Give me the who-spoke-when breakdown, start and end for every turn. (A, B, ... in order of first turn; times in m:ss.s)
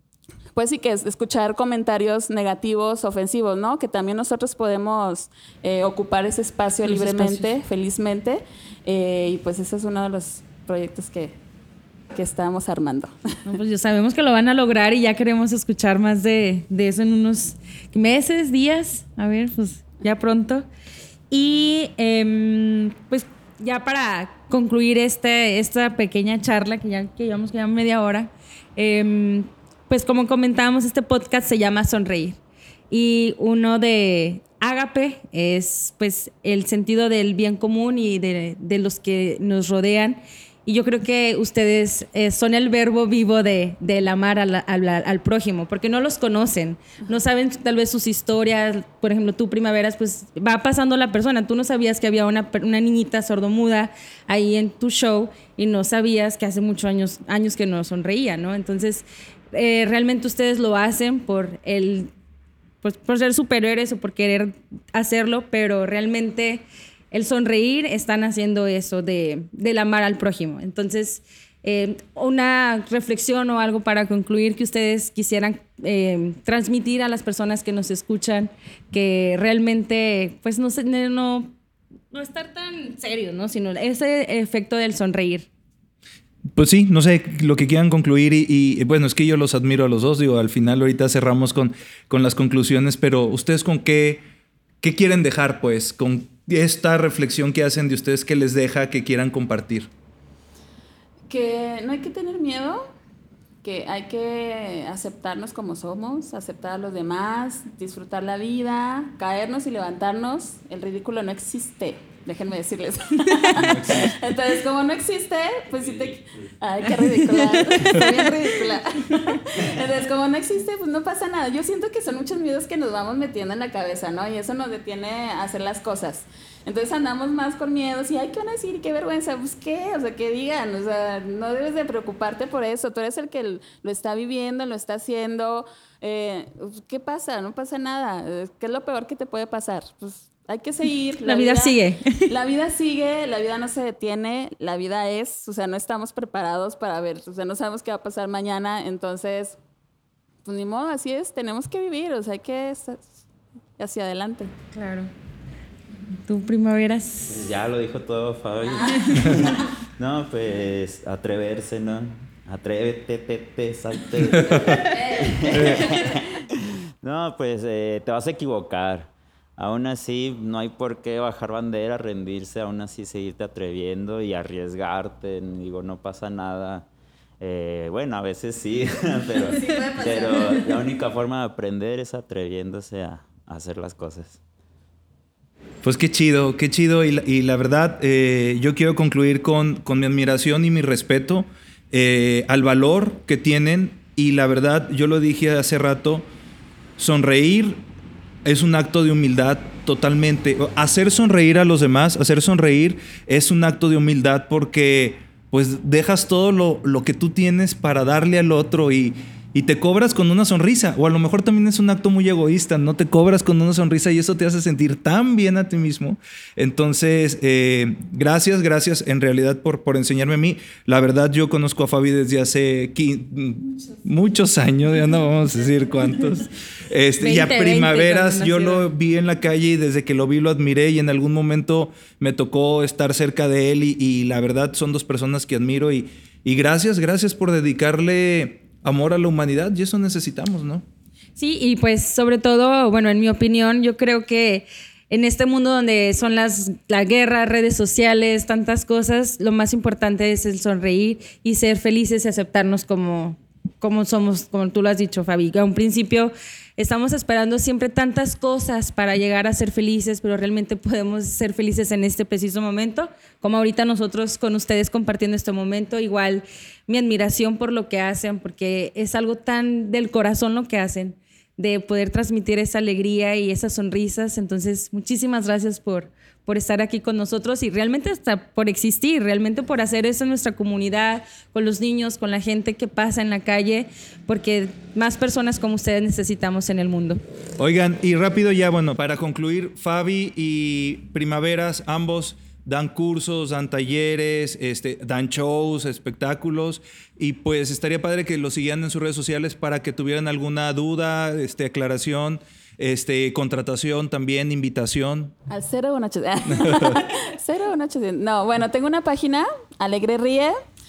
0:00.5-0:11.3 A
0:06.8-0:07.5 B
0:12.1-0:13.1 A
0:13.5-0:20.7 B
0:21.3-0:32.4 B
0:32.9-1:02.1 B
1:02.8-1:21.5 B
1:22.1-1:25.5 B
1:26.6-1:34.2 C
1:34.8-1:39.9 C
1:41.3-1:42.9 A
1:43.6-2:29.6 A
1:53.5-1:54.2 C
1:57.1-1:58.4 B
2:21.2-2:22.3 B
2:30.4-2:33.2 A
2:33.8-2:34.5 A
2:34.7-2:35.1 B
2:36.2-2:37.4 B
2:37.3-2:56.9 D
2:38.9-2:39.4 B
2:45.5-2:45.9 C
2:57.4-3:04.4 D
2:59.8-3:00.4 A
3:05.8-3:16.2 C
3:17.0-3:17.8 C
3:18.4-4:00.8 C
3:47.2-3:48.9 B
4:01.4-4:47.2 B
4:47.6-5:05.3 C
5:05.5-5:10.6 A
5:06.6-5:07.0 C